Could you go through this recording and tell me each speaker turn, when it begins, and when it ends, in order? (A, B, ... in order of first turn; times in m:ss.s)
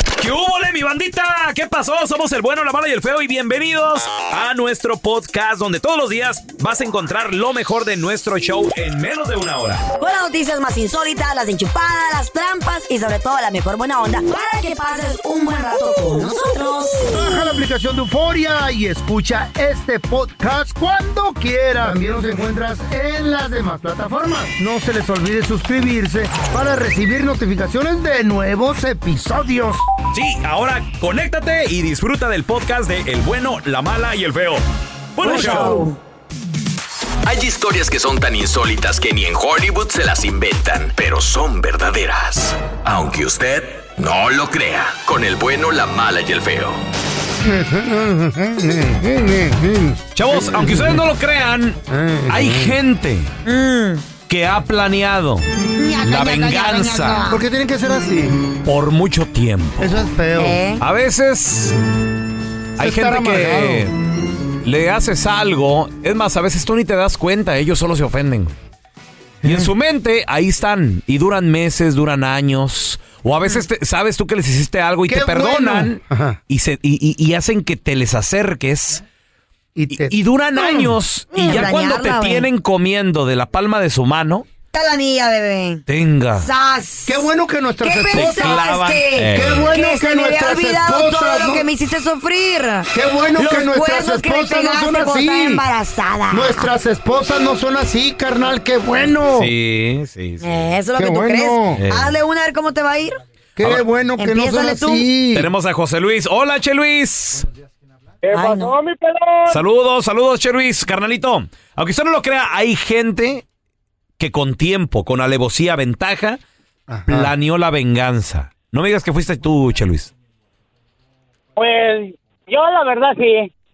0:00.2-0:09.8 A
0:10.0-0:17.3 B
0:17.0-0:29.8 C
0:30.1-0:34.6 A
0:35.2-0:35.8 A
0:35.2-0:36.0 B
0:35.4-0:35.7 D
0:37.3-0:46.7 E
0:47.4-0:51.0 C
0:50.1-0:53.3 A
0:51.9-0:52.8 C
0:53.4-0:54.1 B
0:54.3-0:55.4 A
0:55.8-0:57.4 B
0:56.0-0:57.2 A
0:57.3-0:58.4 C
0:58.6-0:59.9 A
0:59.8-1:00.6 C
1:00.3-1:00.8 B
1:00.8-1:01.8 A
1:02.8-1:03.9 A
1:02.8-1:03.9 C
1:04.6-1:08.5 A
1:09.4-1:19.0 A
1:15.1-1:16.4 C
1:19.7-1:21.6 C
1:19.9-1:24.5 A
1:21.3-1:22.5 B
1:24.7-1:25.8 B
1:25.9-1:26.5 A
1:26.4-1:27.3 B
1:27.0-1:28.6 C
1:27.8-1:36.7 B
1:28.1-1:29.7 A
1:29.2-1:31.7 C
1:32.9-1:35.6 C
1:36.3-1:39.5 C
1:39.3-1:40.7 A
1:40.4-1:43.2 B
1:41.0-1:41.8 C
1:41.8-1:42.1 A
1:43.6-1:45.5 C
1:44.2-1:45.1 B
1:45.3-1:47.4 A
1:48.2-1:49.6 D
1:48.3-1:48.7 B
1:49.5-1:53.4 A
1:54.2-1:56.4 A
1:56.9-1:57.3 C
1:57.1-2:00.1 A
2:01.6-2:03.5 D